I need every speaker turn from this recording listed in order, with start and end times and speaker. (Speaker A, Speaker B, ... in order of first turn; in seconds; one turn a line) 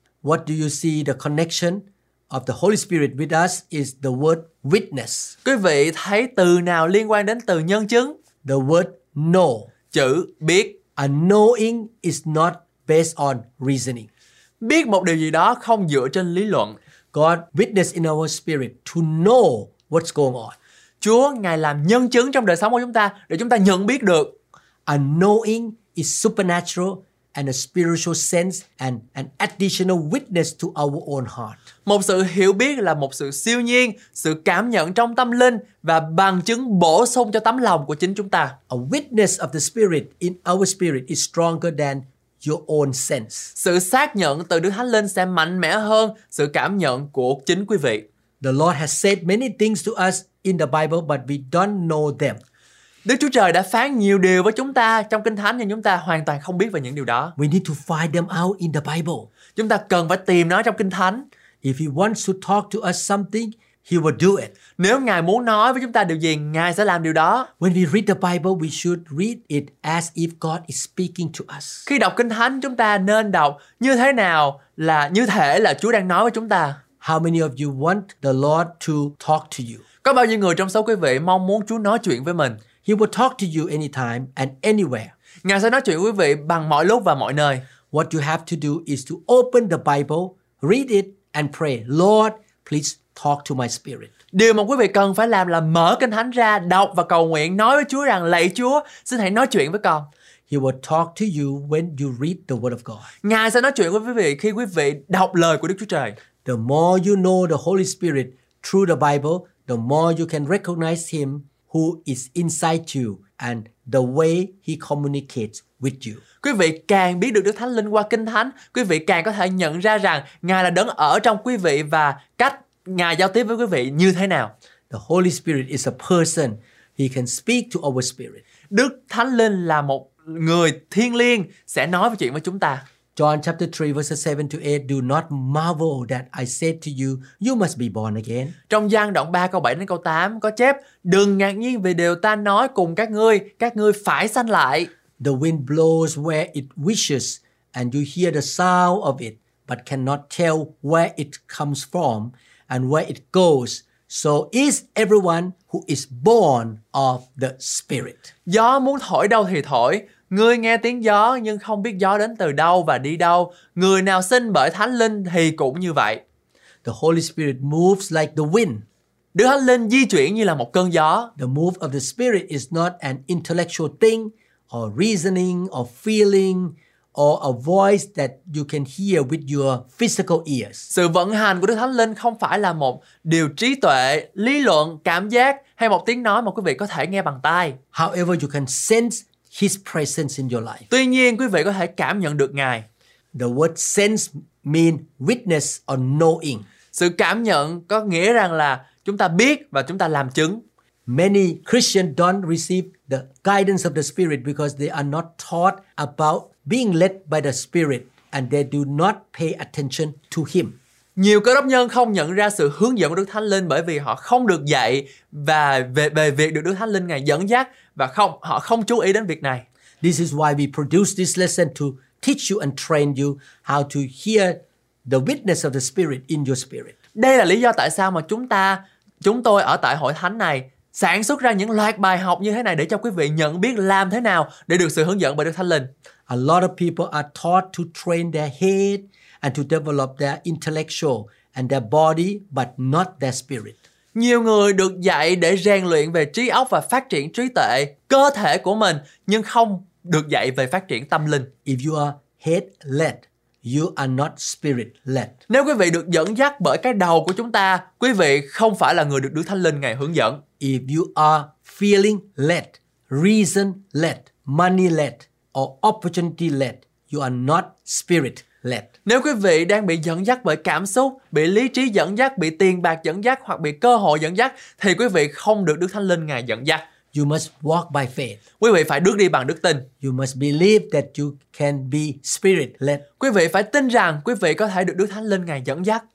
Speaker A: 0.2-5.3
Speaker B: 5.4-8.1
Speaker A: 8.4-9.7
Speaker B: 9.9-10.8
Speaker A: 10.9-14.1
Speaker B: 14.6-16.8
Speaker A: 17.1-20.6
Speaker B: 21.0-24.3
Speaker A: 24.9-31.6
Speaker B: 31.9-38.5
Speaker A: 38.7-43.5
Speaker B: 43.5-48.0
Speaker A: 48.4-52.4
Speaker B: 53.0-57.3
Speaker A: 57.4-59.3
Speaker B: 59.5-61.3
Speaker A: 61.6-64.5
Speaker B: 64.8-67.5
Speaker A: 67.6-71.9
Speaker B: 71.8-76.8
Speaker A: 77.0-79.8
Speaker B: 80.0-82.6
Speaker A: 82.8-85.1
Speaker B: 85.4-87.6
Speaker A: 87.9-94.1
Speaker B: 94.3-100.1
Speaker A: 100.5-103.1
Speaker B: 103.2-106.2
Speaker A: 106.4-116.2
Speaker B: 116.4-124.5
Speaker A: 124.9-128.4
Speaker B: 128.7-132.8
Speaker A: 133.2-138.5
Speaker B: 138.7-144.9
Speaker A: 145.2-158.3
Speaker B: 158.5-166.2
Speaker A: 166.8-168.8
Speaker B: 169.3-171.3
Speaker A: 171.4-180.9
Speaker B: 180.9-187.8
Speaker A: 187.9-190.8
Speaker B: 190.9-192.8
Speaker A: 193.3-196.7
Speaker B: 196.9-200.6
Speaker A: 201.1-210.8
Speaker B: 211.2-219.6
Speaker A: 220.0-226.9
Speaker B: 227.2-235.9
Speaker A: 236.3-243.8
Speaker B: 244.1-251.5
Speaker A: 251.6-255.3
Speaker B: 255.5-260.4
Speaker A: 260.6-268.9
Speaker B: 269.0-276.8
Speaker A: 277.1-278.4
Speaker B: 278.6-279.9
Speaker A: 280.0-283.0
Speaker B: 283.2-286.0